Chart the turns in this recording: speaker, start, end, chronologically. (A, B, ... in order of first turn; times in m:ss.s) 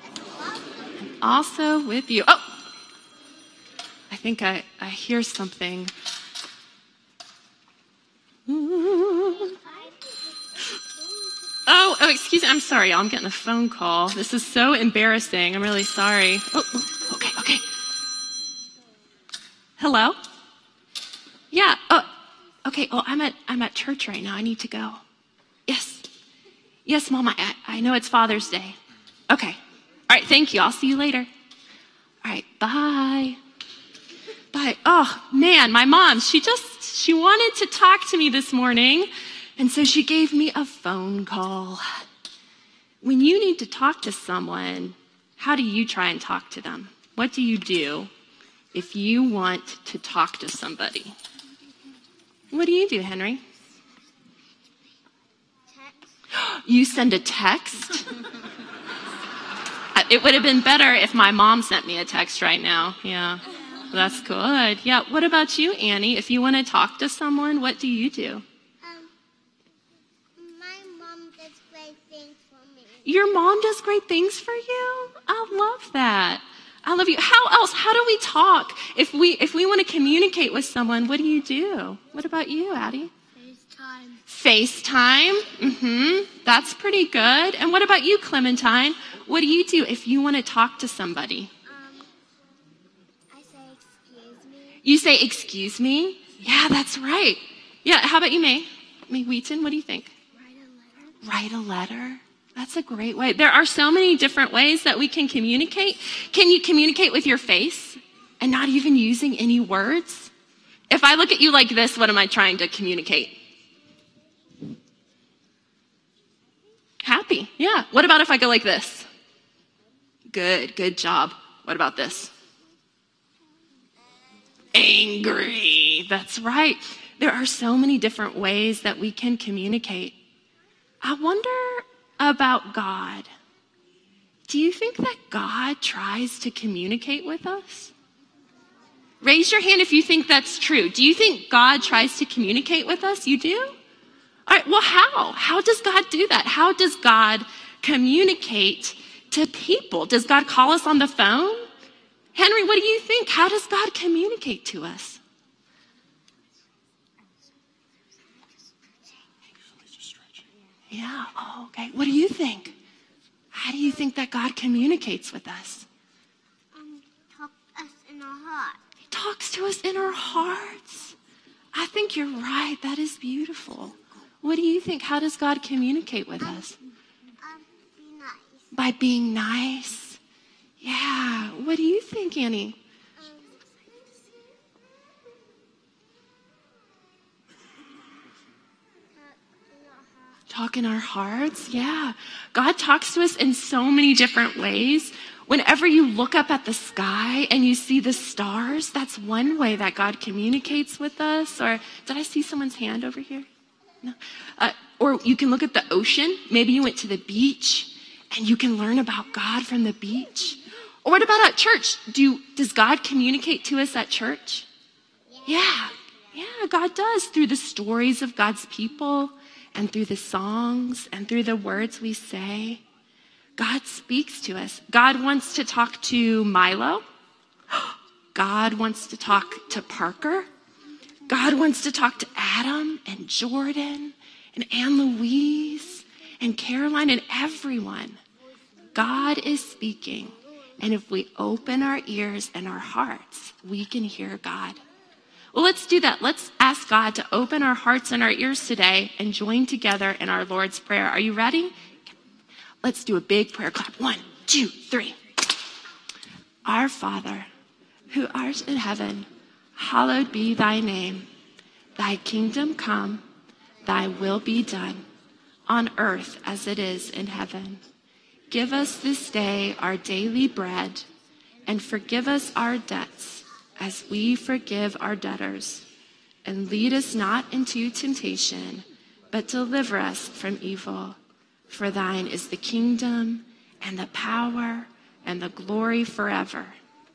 0:00.4-0:00.9 A
0:01.0-0:02.4 B
0:04.1-0:05.9 B
0:08.5-0:09.5 B
0:09.4-0:10.8 A
0:11.6-0:17.7 B
0:19.8-0:20.2 B
0:21.5-0:22.1 B
0:22.6-0:25.0 B
0:25.7-0:26.1 B
0:26.8-0:28.8 B
0:29.3-0:29.6 B
0:30.1-0:31.3 B
0:32.2-0:33.4 B
0:34.5-0:41.8 B
0:43.0-0:48.1 B
0:48.7-0:51.1 B
0:52.5-0:53.4 B
0:56.3-0:58.1 B
0:59.9-1:08.4 B
1:08.8-1:09.1 A
1:10.4-1:13.1 A
1:13.0-1:23.1 B
1:23.4-1:24.2 A
1:24.3-1:31.5 B
1:31.6-1:32.1 A
1:33.3-1:34.8 A
1:34.8-1:40.1 B
1:40.4-1:41.2 A
1:41.2-1:50.3 B
1:50.9-1:53.3 B
1:57.0-1:59.1 B
2:00.3-2:02.3 B
2:04.7-2:10.2 B
2:11.0-2:13.3 B
2:14.5-2:17.9 B
2:19.2-2:23.8 B
2:24.5-2:31.7 B
2:32.3-2:35.2 B
2:40.9-2:42.7 B
2:43.5-2:45.9 B
2:46.7-2:48.8 A
2:49.1-2:51.1 B
2:51.7-2:56.8 B
2:57.4-2:58.6 A
2:58.7-3:00.2 B
3:00.8-3:02.8 B
3:03.2-3:04.2 A
3:09.1-3:10.4 A
3:10.5-3:23.5 B
3:24.0-3:34.7 B
3:35.4-3:35.9 A
3:35.4-3:42.8 B
3:43.6-3:47.0 B
3:48.3-3:50.5 B
3:51.3-3:58.2 B
3:58.9-4:04.8 B
4:05.5-4:11.9 B
4:12.8-4:15.2 B
4:16.6-4:17.5 B
4:18.1-4:21.2 B
4:22.0-4:23.2 B
4:23.8-4:25.0 B
4:25.7-4:27.8 B
4:28.5-4:31.0 B
4:31.7-4:35.9 B
4:36.4-4:41.2 B
4:41.7-4:46.8 B